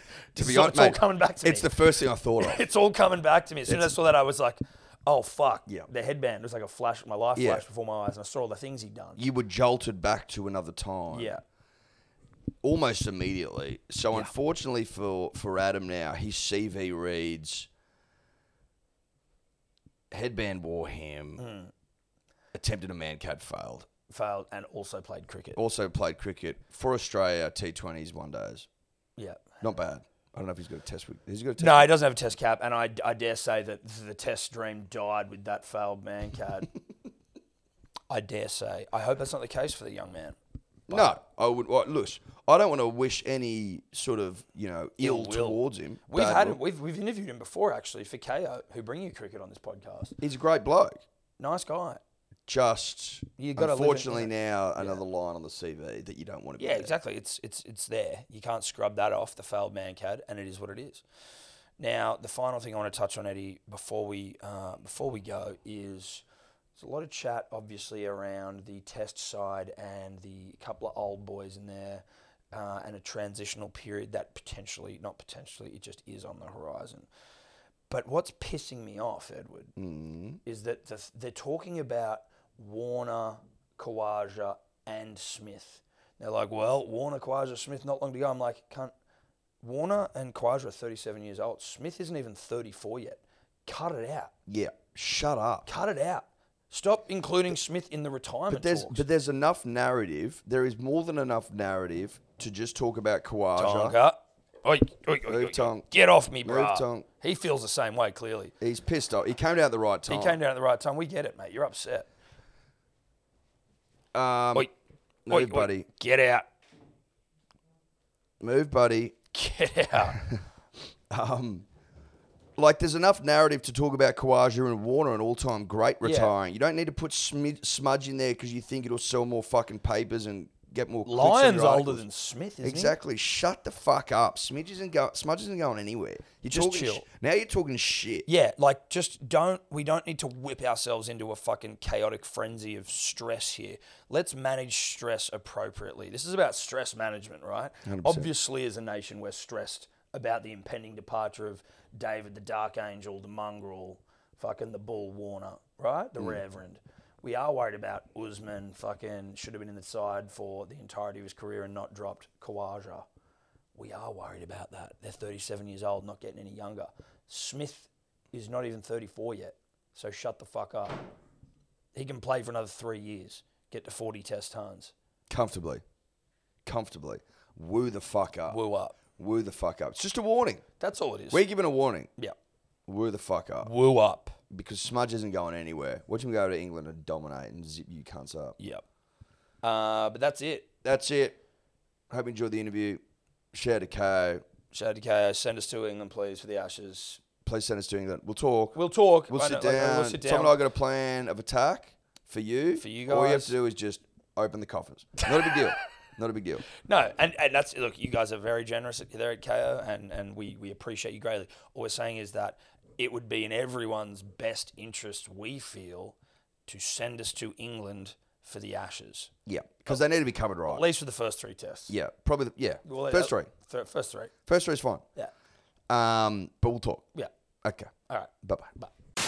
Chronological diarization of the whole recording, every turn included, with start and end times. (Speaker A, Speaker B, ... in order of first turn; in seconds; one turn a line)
Speaker A: 0.3-1.7
Speaker B: 0.4-2.6
Speaker A: 2.4-9.2
Speaker B: 3.7-3.9
Speaker B: 7.4-7.6
Speaker B: 9.2-11.3
Speaker A: 11.1-11.4
Speaker B: 12.6-17.7
Speaker B: 20.1-21.4
Speaker A: 21.4-21.7
Speaker B: 22.5-23.9
Speaker A: 24.1-25.6
Speaker B: 25.6-28.7
Speaker A: 29.2-29.5
Speaker B: 29.6-31.9
Speaker A: 31.6-36.7
Speaker A: 38.1-40.4
Speaker A: 40.9-41.2
Speaker B: 40.9-46.6
Speaker A: 45.0-50.2
Speaker B: 50.2-51.0
Speaker A: 51.4-52.0
Speaker B: 52.5-56.9
Speaker A: 53.4-55.0
Speaker A: 56.6-61.0
Speaker A: 61.8-66.2
Speaker A: 66.8-77.1
Speaker A: 77.9-79.7
Speaker B: 79.8-80.4
Speaker A: 80.5-88.9
Speaker A: 89.6-94.3
Speaker B: 94.5-95.7
Speaker A: 95.7-99.0
Speaker B: 98.5-104.0
Speaker A: 103.6-108.5
Speaker B: 105.3-105.9
Speaker B: 106.4-107.1
Speaker B: 108.6-110.4
Speaker A: 110.1-112.1
Speaker B: 114.1-114.7
Speaker B: 115.3-115.9
Speaker A: 115.3-116.5
Speaker B: 118.4-119.2
Speaker A: 119.3-120.2
Speaker B: 121.1-121.6
Speaker B: 122.6-132.0
Speaker A: 126.0-126.3
Speaker A: 131.1-132.9
Speaker B: 132.6-138.3
Speaker A: 136.5-137.0
Speaker A: 138.3-163.1
Speaker B: 147.8-148.3
Speaker A: 163.8-171.1
Speaker A: 171.9-174.9
Speaker B: 175.3-175.8
Speaker B: 176.7-178.6
Speaker A: 178.5-178.9
Speaker B: 179.2-180.6
Speaker A: 180.8-181.4
Speaker B: 181.3-182.1
Speaker B: 182.9-183.7
Speaker A: 183.6-184.4
Speaker B: 184.5-188.6
Speaker A: 188.6-188.8
Speaker A: 189.6-190.7
Speaker B: 190.8-191.4
Speaker B: 192.1-193.0
Speaker B: 193.5-194.4
Speaker A: 194.7-197.2
Speaker B: 197.4-206.7
Speaker A: 198.8-200.6
Speaker A: 202.8-203.5
Speaker A: 206.8-216.2
Speaker A: 216.7-219.3
Speaker B: 219.5-220.8
Speaker A: 220.7-221.9
Speaker B: 221.9-223.5
Speaker A: 222.8-224.3
Speaker B: 224.5-225.1
Speaker B: 225.9-227.1
Speaker B: 227.6-227.9
Speaker A: 228.1-228.9
Speaker B: 228.4-228.7